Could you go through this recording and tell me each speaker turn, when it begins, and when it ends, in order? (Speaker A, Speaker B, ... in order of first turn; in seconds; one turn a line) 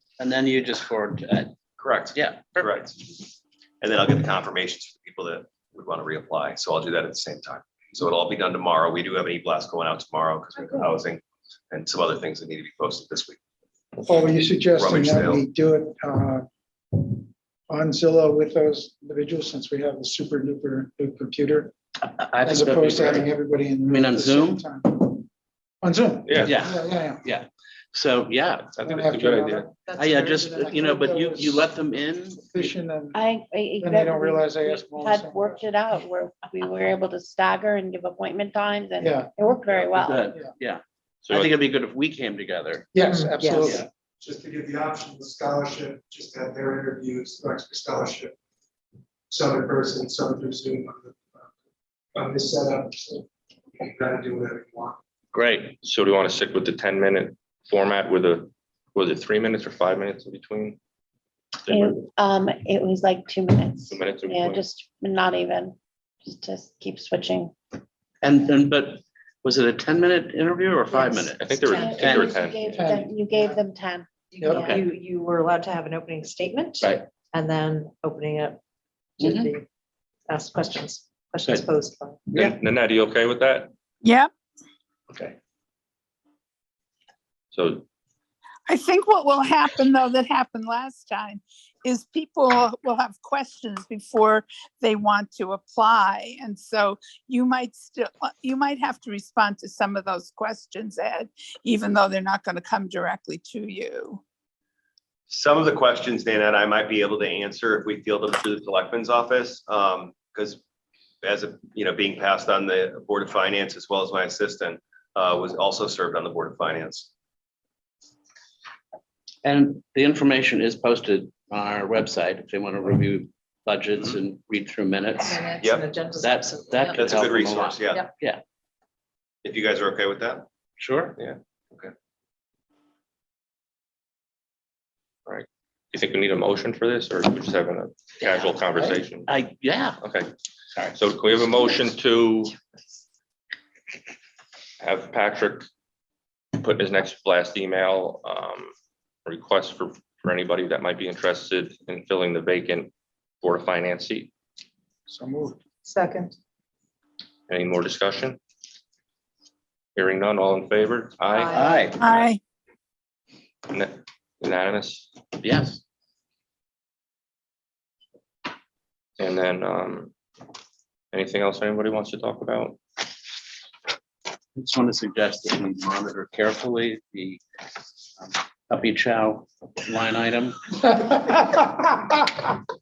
Speaker A: 0.2-1.5
Speaker B: 1.8-3.2
Speaker A: 2.1-2.7
Speaker B: 3.8-13.4
Speaker C: 10.6-10.9
Speaker D: 14.0-21.7
Speaker B: 14.7-15.4
Speaker A: 22.0-23.3
Speaker D: 22.4-25.3
Speaker A: 23.9-24.7
Speaker D: 25.8-27.2
Speaker E: 26.2-26.6
Speaker A: 26.4-28.7
Speaker E: 28.6-29.7
Speaker D: 28.8-31.7
Speaker C: 29.9-30.7
Speaker A: 29.9-32.7
Speaker D: 32.5-33.2
Speaker F: 33.1-40.3
Speaker D: 33.8-35.7
Speaker D: 39.0-39.4
Speaker A: 39.9-42.9
Speaker D: 40.2-40.5
Speaker E: 41.2-41.6
Speaker D: 42.9-43.9
Speaker C: 43.0-43.8
Speaker G: 44.2-48.3
Speaker G: 49.3-51.4
Speaker G: 52.1-53.2
Speaker G: 53.8-55.0
Speaker A: 55.3-55.7
Speaker E: 55.8-60.8
Speaker E: 61.7-62.0
Speaker F: 61.7-67.5
Speaker E: 63.9-64.6
Speaker A: 68.2-72.9
Speaker F: 71.0-74.8
Speaker E: 71.4-72.9
Speaker D: 72.8-73.6
Speaker C: 74.3-78.6
Speaker A: 74.5-74.8
Speaker A: 79.2-79.5
Speaker C: 79.2-79.6
Speaker C: 80.3-82.2
Speaker E: 82.3-83.7
Speaker H: 84.0-84.3
Speaker E: 87.5-87.8
Speaker H: 88.7-104.2
Speaker B: 105.3-110.6
Speaker B: 111.2-117.1
Speaker A: 119.4-125.5
Speaker C: 125.3-127.0
Speaker B: 125.6-125.9
Speaker A: 126.2-128.4
Speaker B: 127.0-128.1
Speaker B: 129.4-130.4
Speaker A: 130.8-131.2
Speaker E: 135.2-139.3
Speaker A: 138.2-140.0
Speaker E: 140.0-140.3
Speaker E: 140.9-142.5
Speaker E: 144.8-145.7
Speaker E: 146.5-148.7
Speaker E: 149.2-152.9
Speaker E: 153.4-154.3
Speaker D: 155.1-155.6
Speaker C: 155.8-156.3
Speaker E: 157.5-158.4
Speaker E: 159.9-162.2
Speaker C: 161.3-161.9
Speaker A: 161.5-162.0
Speaker H: 162.0-162.4
Speaker E: 163.7-165.1
Speaker A: 165.4-165.8
Speaker E: 169.2-170.1
Speaker E: 171.1-172.8
Speaker A: 174.6-177.4
Speaker A: 178.2-181.6